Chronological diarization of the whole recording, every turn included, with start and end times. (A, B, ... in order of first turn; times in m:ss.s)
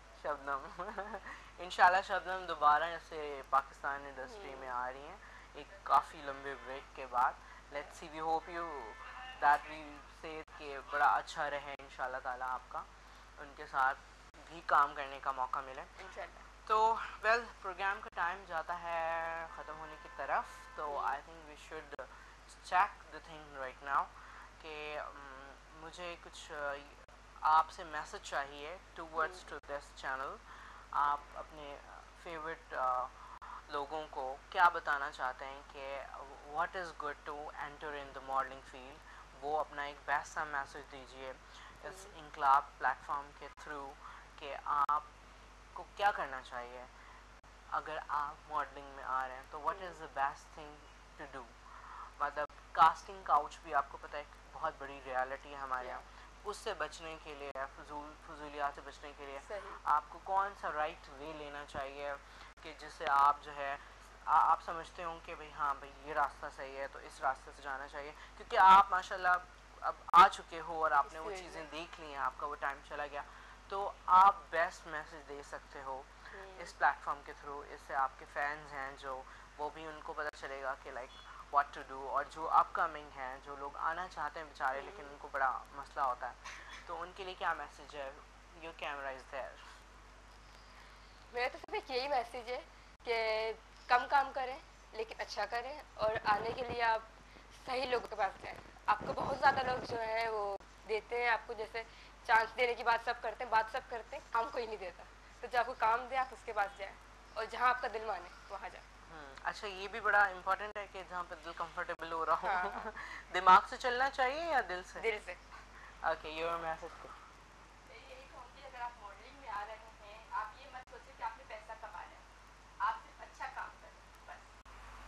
0:00.2-0:15.9 A
0:04.2-0:04.7 B
0:16.0-0:16.5 B
0:16.7-0:30.4 A
0:20.9-0:21.2 B
0:29.2-0:29.4 B
0:30.9-0:45.1 A
0:41.9-0:42.1 B
0:45.7-0:46.9 A
0:47.7-0:51.5 A
0:49.7-0:50.0 B
0:52.2-1:29.6 A
0:55.8-0:56.0 B
0:59.4-0:59.8 B
1:11.1-1:11.6 B
1:16.3-1:16.7 B
1:24.7-1:25.1 B
1:31.3-1:48.8 B
1:49.1-1:55.1 A
1:52.4-1:52.9 B
1:55.0-1:55.5 B
1:56.0-1:57.2 A
1:57.9-2:02.2 C
2:02.8-2:04.5 C